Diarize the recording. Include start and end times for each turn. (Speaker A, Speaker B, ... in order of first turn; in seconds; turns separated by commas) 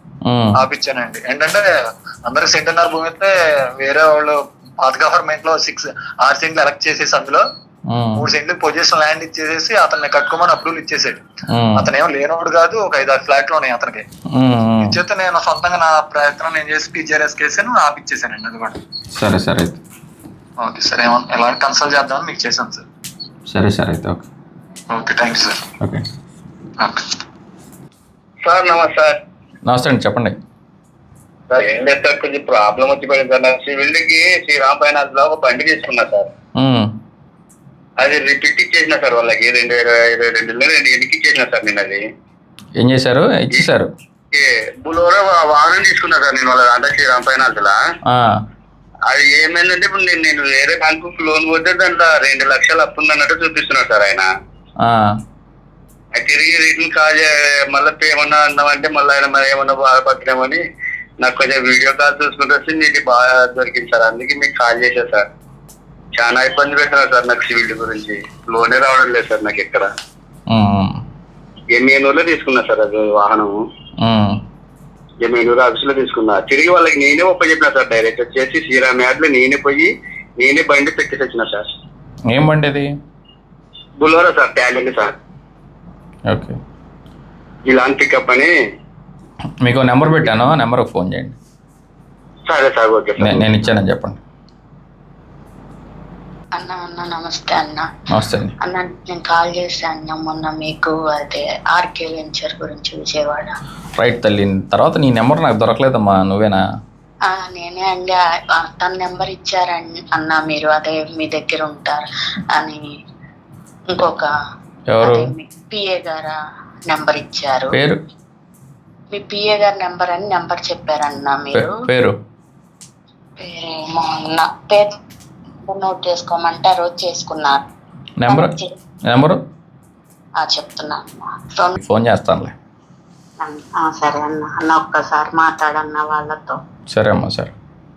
Speaker A: 0.2-0.6, Speaker B: 0.6-1.6, Speaker B: 2.2-7.4, Speaker A: 7.9-8.2, Speaker B: 8.2-11.2, Speaker A: 11.5-11.9, Speaker B: 11.8-14.0, Speaker A: 14.3-15.0, Speaker B: 14.8-18.8, Speaker A: 19.1-19.8, Speaker B: 20.6-22.8, Speaker A: 23.5-24.2, Speaker B: 24.9-25.6, Speaker B: 26.8-27.1, Speaker C: 28.4-29.1, Speaker A: 29.6-30.4, Speaker C: 31.5-36.3, Speaker A: 36.6-36.9, Speaker C: 38.0-42.0, Speaker A: 42.8-43.9, Speaker C: 44.3-47.8, Speaker C: 49.1-54.3, Speaker C: 56.2-60.6, Speaker C: 61.2-65.2, Speaker C: 66.1-69.9, Speaker A: 70.5-70.9, Speaker C: 71.7-73.5, Speaker A: 74.0-74.3, Speaker C: 75.2-81.6, Speaker A: 82.3-82.9, Speaker C: 84.0-85.1, Speaker A: 86.3-86.6, Speaker C: 87.7-88.5, Speaker A: 89.6-91.3, Speaker C: 92.5-93.6, Speaker A: 93.2-94.2, Speaker D: 96.5-97.9, Speaker A: 98.1-98.5, Speaker D: 98.6-103.5, Speaker A: 104.0-106.6, Speaker D: 107.2-112.9, Speaker D: 113.9-114.3, Speaker A: 114.9-115.3, Speaker D: 115.0-116.4, Speaker D: 116.9-117.7, Speaker A: 117.7-118.0, Speaker D: 119.1-121.7, Speaker A: 121.5-122.1, Speaker D: 123.4-124.9, Speaker D: 125.6-127.7, Speaker A: 128.2-128.5, Speaker D: 128.3-128.7, Speaker A: 129.1-129.4, Speaker D: 130.4-131.7, Speaker A: 131.8-132.5, Speaker D: 133.4-136.6, Speaker A: 136.9-137.5